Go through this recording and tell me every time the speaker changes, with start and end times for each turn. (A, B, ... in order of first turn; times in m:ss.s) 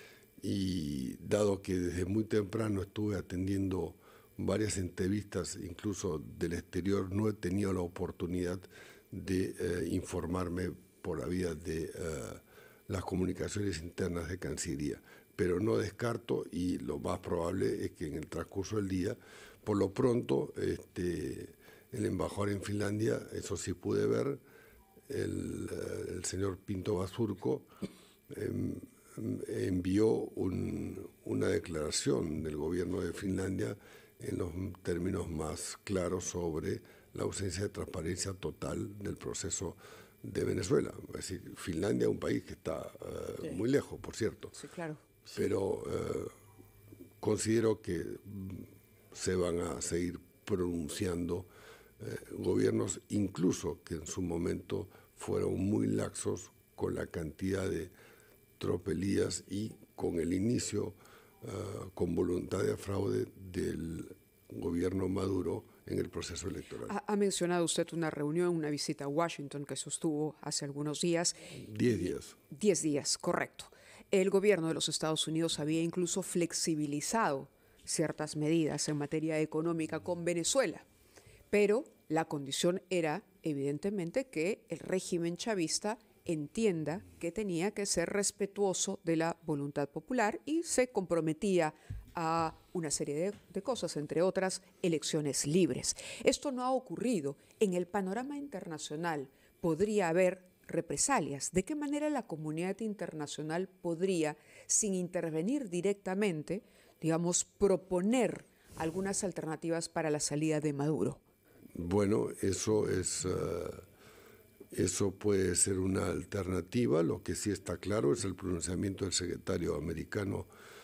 0:00.4-0:24.4 A
0:25.1-0:27.7 A
0:28.3-0:44.5 A
0:44.6-0:45.0 B
0:45.3-0:46.3 A
0:47.2-0:51.5 A
0:52.0-0:57.9 A
0:58.6-1:06.9 A
1:06.9-1:20.8 B
1:11.6-1:12.4 A
1:21.5-1:51.2 B
1:51.8-1:53.8 A
1:54.7-2:00.5 A